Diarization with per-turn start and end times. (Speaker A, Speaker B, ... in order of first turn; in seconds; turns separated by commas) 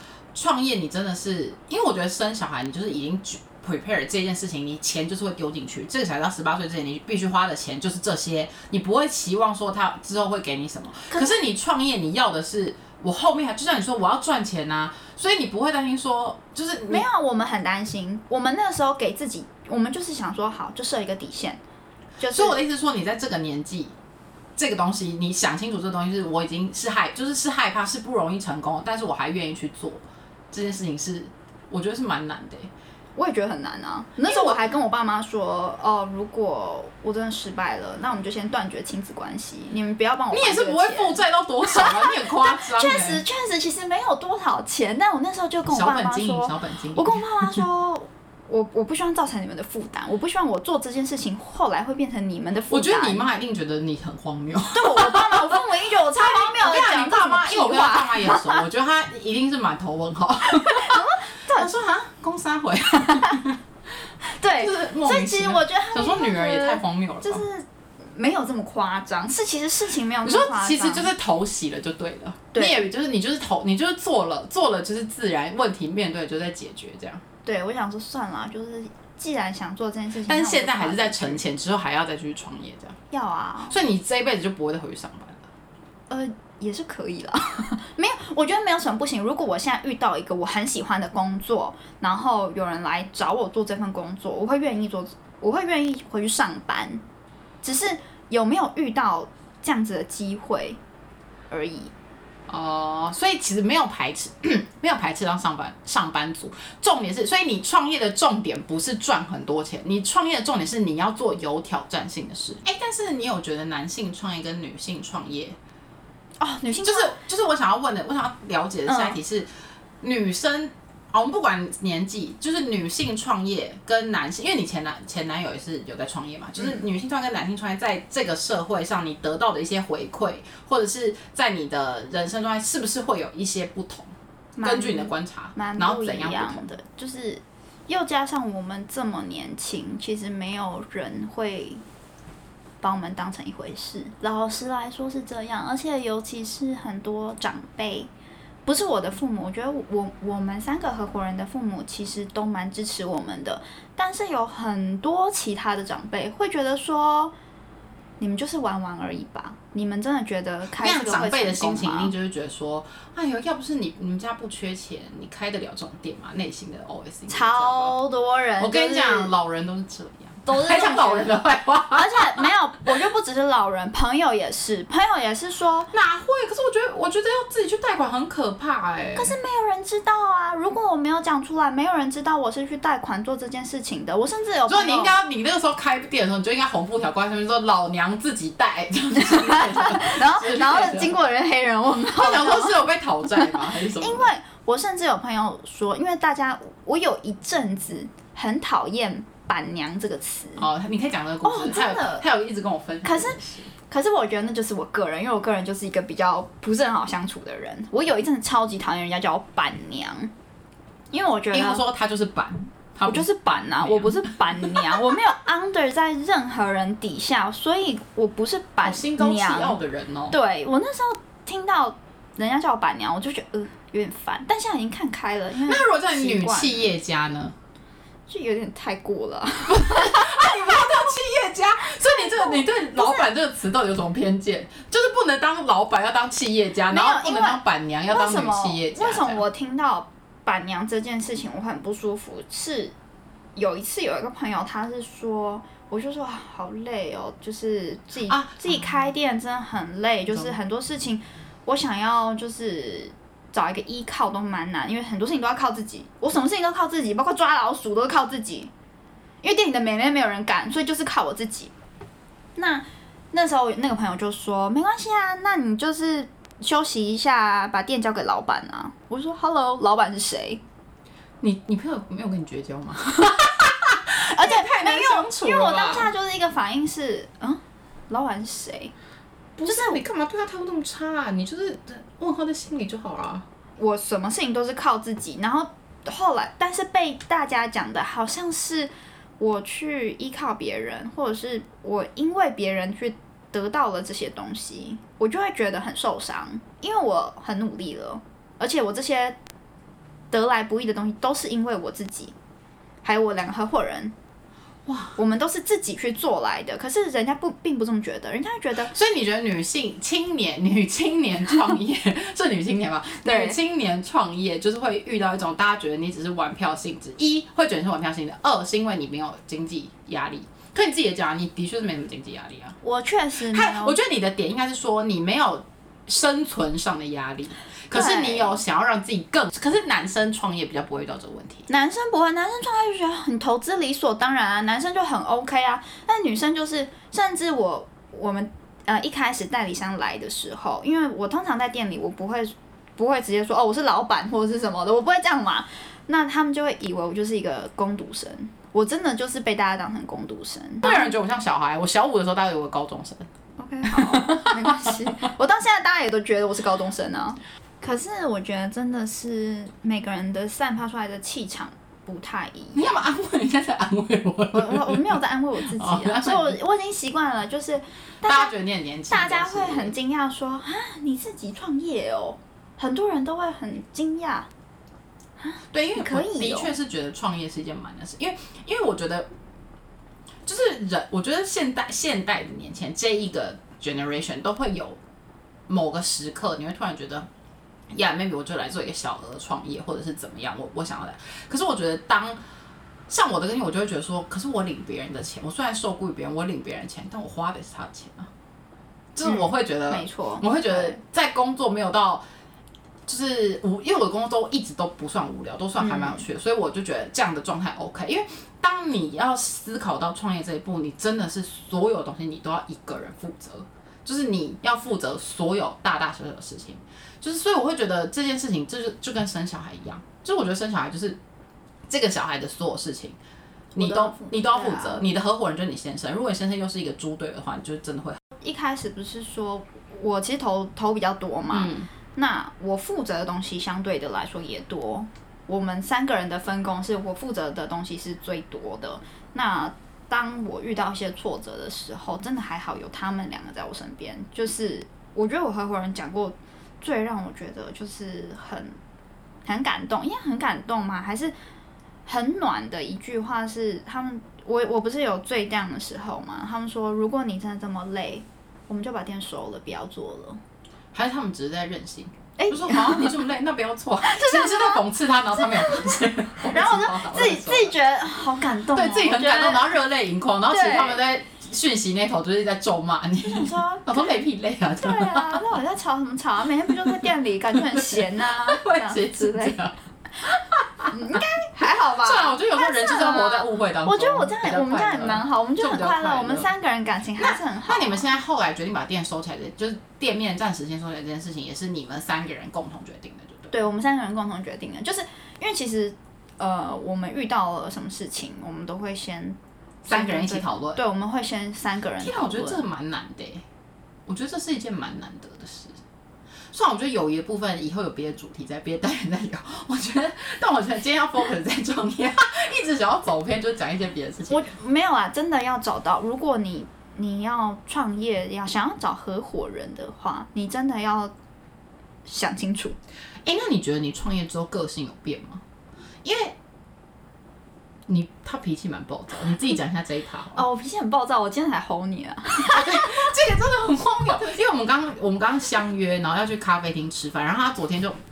Speaker A: 0.3-17.1, Speaker B: 11.1-11.4, Speaker B: 16.9-21.6, Speaker B: 22.2-22.6, Speaker A: 22.3-23.9, Speaker A: 24.6-32.7, Speaker B: 33.2-53.2, Speaker A: 34.3-34.7, Speaker A: 40.3-43.2, Speaker A: 45.7-47.6, Speaker A: 52.7-63.6, Speaker B: 54.7-58.6, Speaker B: 60.5-61.7, Speaker B: 63.1-63.4, Speaker B: 64.2-71.1, Speaker A: 64.6-67.5, Speaker A: 70.2-77.2, Speaker B: 72.5-72.9, Speaker B: 77.4-81.4, Speaker A: 80.3-83.0, Speaker B: 83.1-83.8, Speaker A: 83.7-85.5, Speaker B: 86.1-97.0, Speaker B: 97.6-100.8, Speaker B: 101.5-101.9, Speaker A: 102.5-115.6, Speaker B: 116.4-117.2, Speaker A: 116.8-119.5, Speaker B: 118.9-119.2, Speaker A: 120.0-134.1, Speaker B: 134.6-141.8, Speaker A: 134.6-136.6, Speaker B: 142.8-148.1, Speaker B: 148.7-157.3, Speaker B: 158.2-162.1, Speaker A: 160.8-167.9, Speaker B: 167.3-169.3, Speaker A: 168.6-172.5, Speaker B: 170.5-171.4, Speaker B: 171.9-175.9, Speaker A: 175.9-179.3, Speaker B: 179.2-185.2, Speaker A: 184.7-191.2, Speaker B: 189.2-200.7, Speaker A: 192.1-194.3, Speaker A: 200.6-203.7, Speaker B: 201.4-202.2, Speaker B: 203.0-203.4, Speaker B: 203.9-210.3, Speaker B: 211.1-211.8, Speaker A: 211.5-215.0, Speaker B: 213.1-219.8, Speaker A: 218.8-220.4, Speaker B: 220.3-226.9, Speaker A: 225.7-227.5, Speaker B: 228.3-231.1, Speaker A: 229.7-239.4, Speaker B: 232.0-233.3, Speaker B: 236.9-242.9, Speaker B: 243.6-258.7, Speaker A: 248.3-248.8, Speaker B: 259.4-261.7, Speaker B: 262.6-270.6, Speaker A: 271.4-276.1, Speaker B: 274.3-278.9, Speaker A: 279.6-283.4, Speaker B: 279.7-280.0, Speaker B: 283.8-299.4, Speaker B: 300.3-302.4, Speaker B: 303.0-304.1, Speaker A: 304.9-305.2, Speaker B: 305.2-308.9, Speaker A: 308.9-322.8, Speaker B: 313.2-313.6, Speaker B: 322.8-324.0, Speaker A: 323.5-331.7, Speaker B: 327.9-328.6, Speaker B: 331.7-351.1, Speaker A: 350.8-353.3, Speaker B: 353.6-363.0, Speaker A: 353.9-355.0, Speaker A: 362.7-366.6, Speaker B: 364.5-368.5, Speaker A: 368.2-369.9, Speaker B: 369.1-374.5, Speaker B: 375.4-376.7, Speaker A: 375.7-379.3, Speaker A: 380.5-385.0, Speaker A: 385.7-387.3, Speaker A: 387.9-392.4, Speaker A: 393.1-398.3, Speaker A: 399.1-402.2, Speaker B: 399.2-401.0, Speaker A: 403.1-421.2, Speaker B: 405.8-406.2, Speaker A: 421.9-423.2, Speaker A: 423.8-428.2, Speaker B: 423.8-425.0, Speaker B: 428.4-448.8, Speaker A: 431.5-431.9, Speaker B: 449.4-451.3, Speaker B: 452.1-460.4, Speaker A: 460.9-467.8, Speaker B: 462.4-463.2, Speaker B: 464.0-464.8, Speaker B: 465.4-469.7, Speaker A: 468.7-475.6, Speaker B: 470.5-471.0, Speaker B: 473.2-474.1, Speaker B: 474.8-479.6, Speaker A: 476.7-477.0, Speaker A: 477.6-486.5, Speaker B: 480.9-488.1, Speaker A: 487.2-493.5, Speaker B: 493.5-502.6, Speaker A: 499.9-500.8, Speaker A: 502.0-503.4, Speaker A: 504.1-505.8, Speaker A: 506.5-514.5, Speaker B: 514.3-521.1, Speaker B: 522.0-522.8, Speaker A: 523.2-525.4, Speaker A: 526.0-526.4, Speaker A: 527.9-530.4, Speaker B: 530.4-533.1, Speaker A: 532.4-538.0